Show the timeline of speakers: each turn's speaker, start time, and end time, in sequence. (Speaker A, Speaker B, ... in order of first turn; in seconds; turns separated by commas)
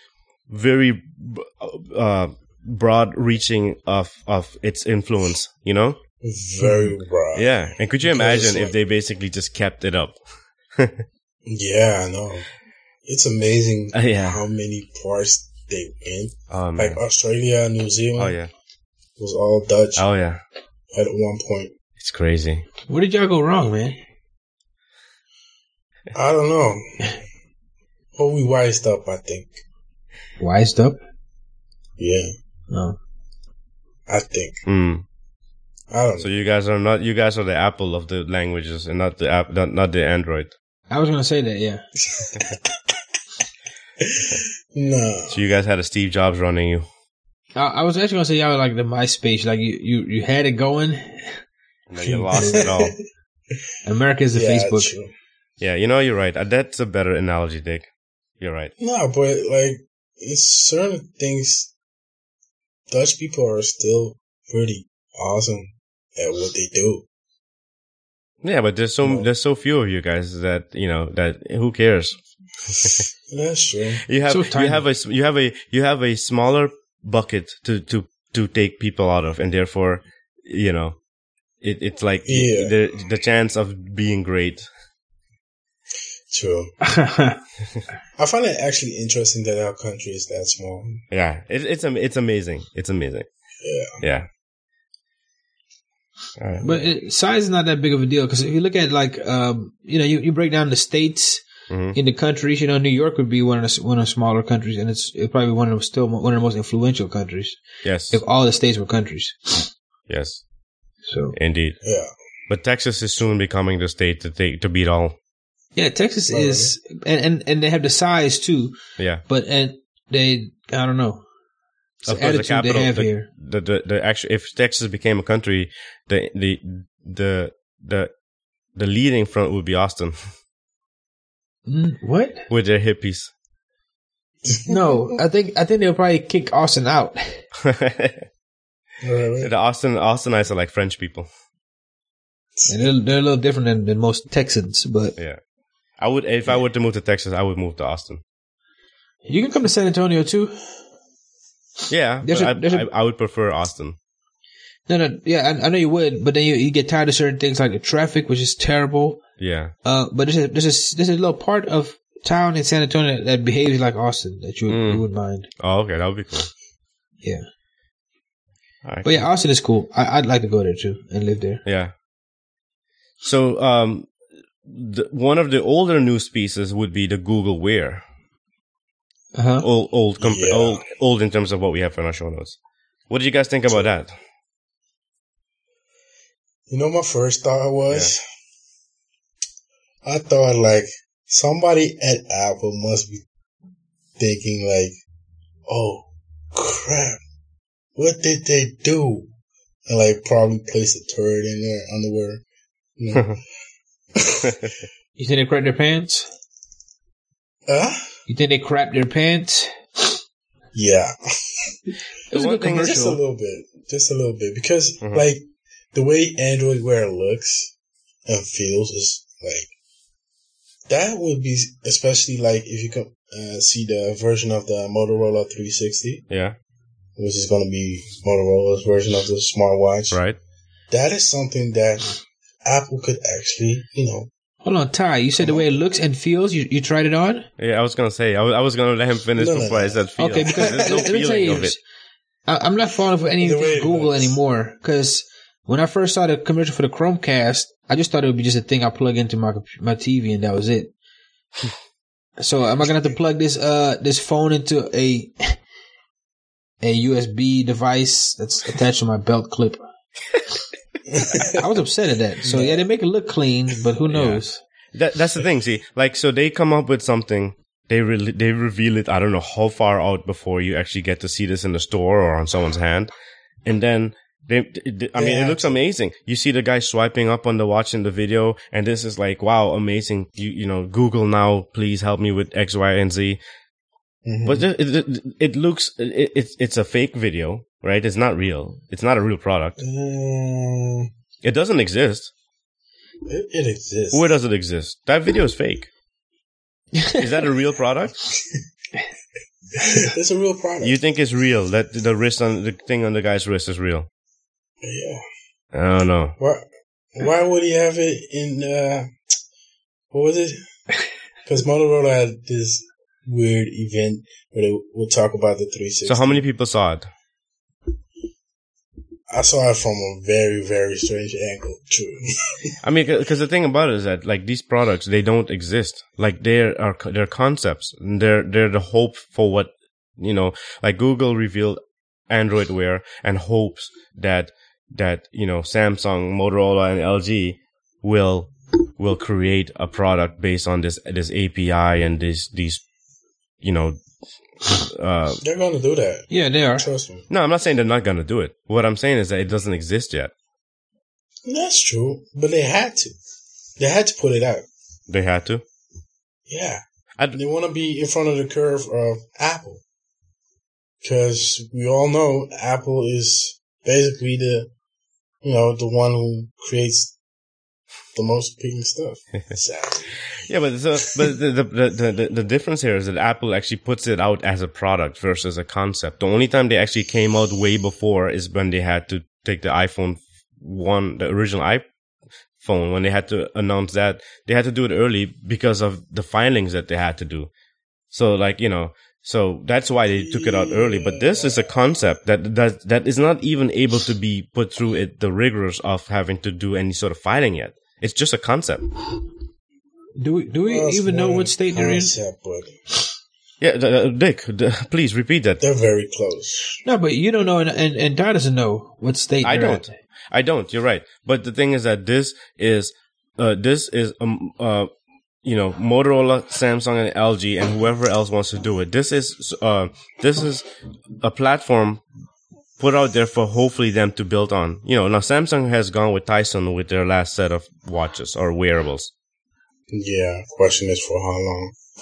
Speaker A: 0.5-6.0, Speaker B: 6.2-7.5, Speaker A: 7.3-10.2, Speaker B: 8.0-8.7, Speaker A: 10.7-11.0, Speaker B: 11.4-12.5, Speaker B: 13.0-18.4, Speaker A: 13.9-14.4, Speaker A: 16.5-17.0, Speaker A: 18.2-18.5, Speaker B: 19.2-20.1, Speaker A: 20.0-20.4, Speaker B: 20.9-21.7, Speaker A: 22.0-22.6, Speaker C: 22.9-24.0, Speaker B: 26.1-27.1, Speaker B: 28.1-29.6, Speaker C: 30.4-31.0, Speaker B: 32.0-32.3, Speaker C: 32.7-33.0, Speaker B: 34.1-34.6, Speaker A: 34.6-35.0, Speaker B: 35.9-36.3, Speaker A: 36.2-40.5, Speaker C: 40.9-41.8, Speaker B: 42.1-42.8, Speaker B: 44.0-45.4, Speaker A: 45.3-46.9, Speaker C: 47.5-51.4, Speaker A: 51.9-52.9, Speaker B: 52.0-53.0, Speaker C: 52.3-52.6, Speaker C: 53.8-54.9, Speaker B: 54.3-55.1, Speaker A: 55.6-57.9, Speaker A: 58.4-58.7, Speaker B: 58.8-61.7, Speaker B: 62.9-67.0, Speaker A: 68.4-72.2, Speaker B: 69.0-69.3, Speaker A: 72.7-73.0, Speaker B: 73.3-74.0, Speaker A: 74.1-81.0, Speaker C: 74.3-74.8, Speaker A: 81.6-84.7, Speaker B: 82.2-82.7, Speaker B: 86.3-86.7, Speaker C: 86.8-87.4, Speaker B: 88.2-91.0, Speaker A: 91.1-93.3, Speaker B: 93.6-94.0, Speaker A: 94.0-94.3, Speaker A: 96.4-96.8, Speaker C: 96.6-107.6, Speaker A: 101.7-102.0, Speaker A: 107.8-108.2, Speaker C: 108.1-109.7, Speaker A: 110.1-110.4, Speaker C: 111.1-111.3, Speaker A: 111.3-111.8, Speaker B: 111.8-112.1, Speaker A: 112.5-115.2, Speaker C: 115.8-118.8, Speaker B: 116.3-116.7, Speaker C: 119.3-121.2, Speaker A: 122.0-128.1, Speaker C: 122.0-123.3, Speaker A: 128.8-130.3, Speaker C: 131.7-132.4, Speaker A: 132.5-133.3, Speaker B: 134.4-134.8, Speaker C: 134.7-137.4, Speaker A: 137.6-138.2, Speaker B: 139.0-139.5, Speaker A: 139.4-141.3, Speaker B: 142.6-142.9, Speaker C: 142.7-145.1, Speaker A: 146.0-148.2, Speaker C: 149.2-150.8, Speaker A: 151.9-154.0, Speaker C: 152.2-152.9, Speaker C: 154.9-159.2, Speaker A: 159.4-159.7, Speaker C: 159.8-165.5, Speaker A: 164.7-165.1, Speaker A: 165.6-166.5, Speaker A: 168.8-169.3, Speaker C: 169.0-171.6, Speaker A: 171.6-171.9, Speaker A: 173.2-174.1, Speaker A: 174.6-178.0, Speaker C: 179.3-179.7, Speaker A: 179.6-182.6, Speaker B: 180.2-180.8, Speaker A: 183.1-184.1, Speaker B: 186.7-188.2, Speaker B: 190.0-193.2, Speaker B: 194.2-194.9, Speaker B: 195.7-197.2, Speaker B: 197.9-199.3, Speaker B: 199.9-202.4, Speaker B: 203.0-203.4, Speaker B: 204.2-204.6, Speaker C: 205.2-206.3, Speaker B: 207.7-208.1, Speaker C: 208.3-209.7, Speaker B: 210.7-211.7, Speaker C: 212.3-213.2, Speaker A: 212.3-213.0, Speaker B: 212.7-217.7, Speaker B: 218.2-219.7, Speaker B: 220.9-226.2, Speaker A: 226.3-226.6, Speaker B: 227.2-230.2, Speaker A: 230.1-230.4, Speaker B: 230.9-234.3, Speaker C: 234.6-237.5, Speaker B: 235.4-235.7, Speaker A: 237.6-241.8, Speaker B: 239.3-240.0, Speaker C: 240.2-241.8, Speaker C: 242.5-250.9, Speaker B: 243.4-244.4, Speaker C: 252.4-255.6, Speaker C: 256.8-259.8, Speaker B: 261.1-261.6, Speaker C: 261.4-264.6, Speaker B: 262.4-262.9, Speaker A: 264.1-264.4, Speaker A: 264.9-273.1, Speaker A: 273.6-283.4, Speaker B: 275.1-275.8, Speaker B: 284.2-284.7, Speaker A: 284.4-289.8, Speaker B: 289.8-291.1, Speaker A: 291.4-292.3, Speaker B: 293.3-294.2, Speaker A: 294.1-295.9, Speaker A: 297.2-298.2, Speaker B: 299.8-300.9, Speaker A: 300.8-304.1, Speaker B: 304.8-305.2, Speaker A: 305.7-306.3, Speaker B: 306.4-309.1, Speaker B: 310.1-310.6, Speaker B: 311.4-316.4, Speaker A: 316.1-317.1, Speaker B: 319.3-322.7, Speaker A: 322.8-342.8, Speaker A: 343.6-344.0, Speaker A: 344.6-345.4, Speaker B: 345.4-347.3, Speaker C: 346.3-346.9, Speaker A: 347.3-350.3, Speaker B: 351.4-353.1, Speaker B: 353.8-354.6, Speaker A: 355.1-355.6, Speaker B: 356.5-359.8, Speaker B: 361.0-364.7, Speaker B: 365.4-367.1, Speaker B: 368.1-370.1, Speaker A: 370.4-381.8, Speaker A: 382.6-387.5, Speaker A: 388.1-398.9, Speaker B: 390.2-391.7, Speaker C: 400.1-402.1, Speaker B: 400.7-402.8, Speaker A: 403.6-405.6, Speaker B: 405.6-406.8, Speaker C: 406.8-409.9, Speaker A: 409.4-414.9, Speaker A: 415.4-420.7, Speaker A: 421.2-422.0, Speaker A: 422.8-429.1, Speaker B: 429.9-431.7